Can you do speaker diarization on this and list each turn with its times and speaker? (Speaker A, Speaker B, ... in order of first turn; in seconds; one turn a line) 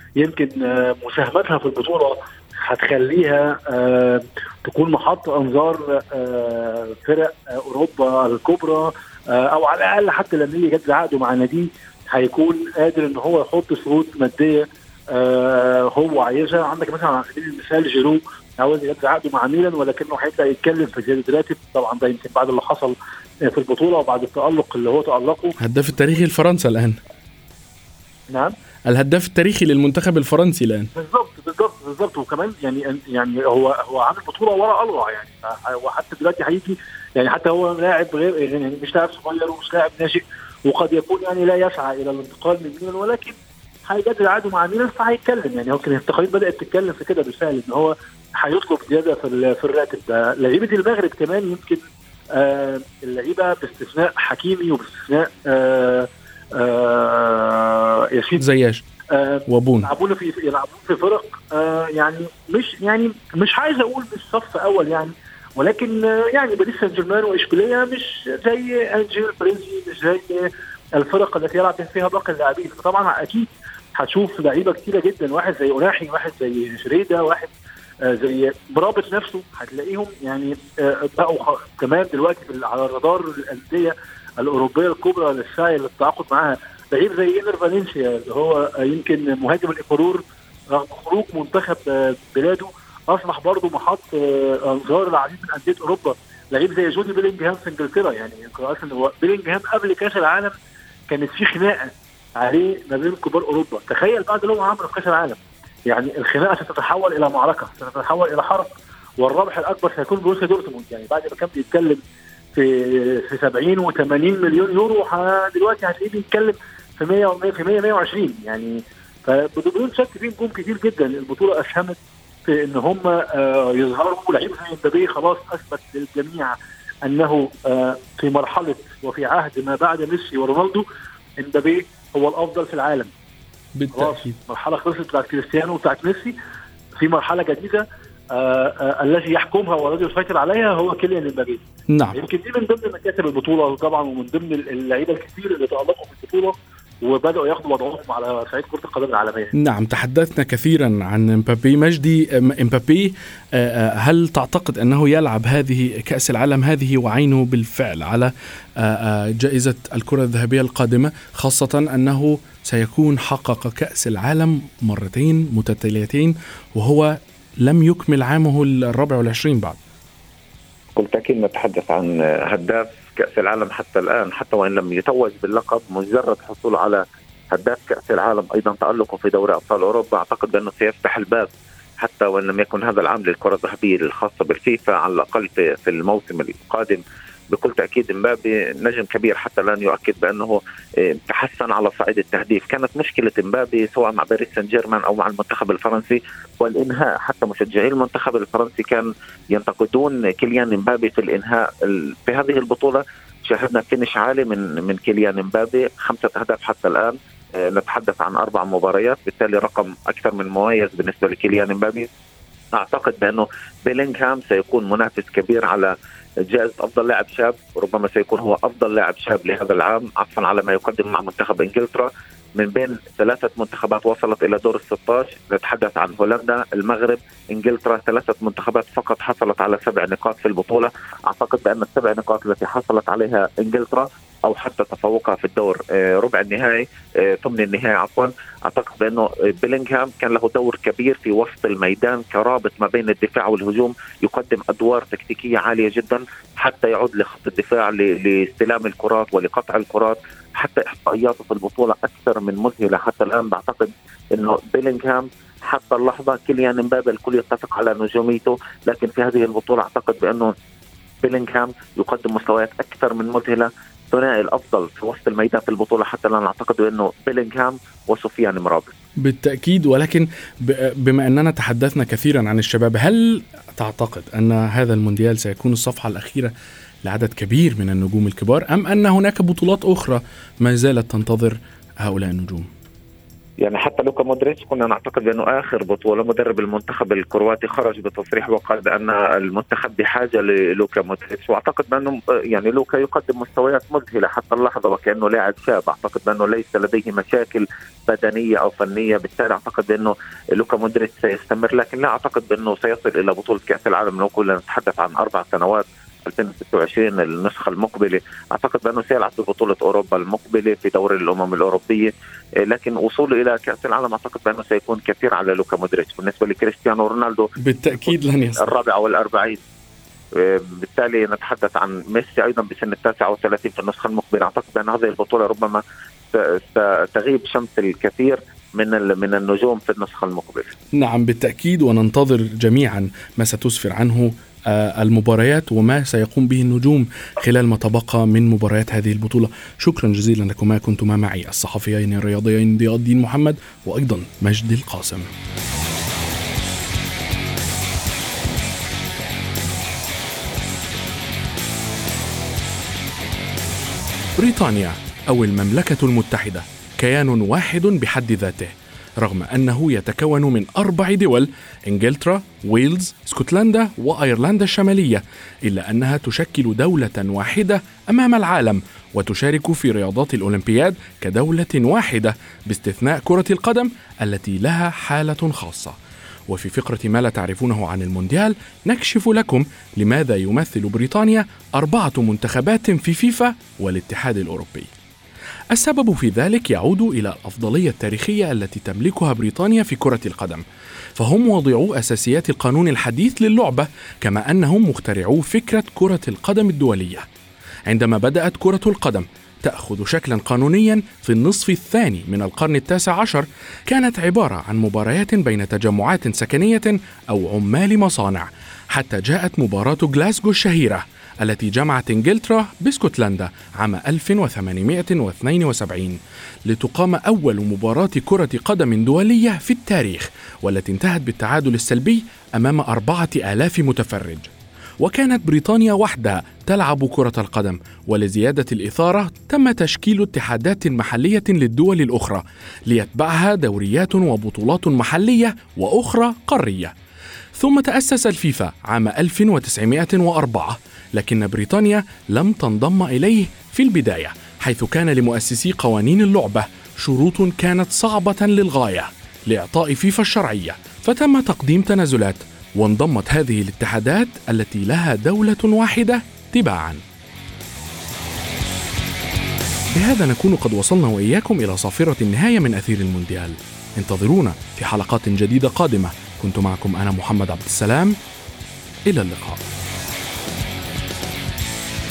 Speaker A: 0.2-25.6
Speaker B: 25.6-27.0
Speaker A: 28.3-28.5
Speaker B: 28.9-30.9
Speaker A: 30.9-58.4
Speaker B: 58.4-58.8
Speaker A: 59.1-77.5
Speaker B: 59.5-59.9
Speaker A: 78.0-100.5
Speaker A: 101.1-112.0
Speaker A: 112.5-130.9
Speaker A: 131.4-133.1
Speaker B: 133.7-134.4
Speaker A: 133.9-136.4
Speaker A: 137.0-149.5
Speaker B: 141.9-142.2
Speaker B: 149.5-169.8
Speaker C: 170.9-212.1
Speaker C: 212.7-215.9
Speaker C: 216.5-260.5
Speaker C: 261.2-268.9
Speaker B: 269.2-282.7
Speaker C: 283.6-317.5
Speaker B: 317.6-318.7
Speaker C: 318.0-319.6
Speaker C: 320.3-325.8
Speaker C: 326.3-330.8
Speaker B: 330.9-345.3
Speaker B: 354.4-376.0
Speaker B: 376.5-384.9
Speaker B: 385.7-390.6
Speaker B: 391.1-397.2
Speaker B: 397.9-436.9
Speaker B: 437.6-457.0
Speaker B: 459.9-468.2
Speaker B: 469.1-469.6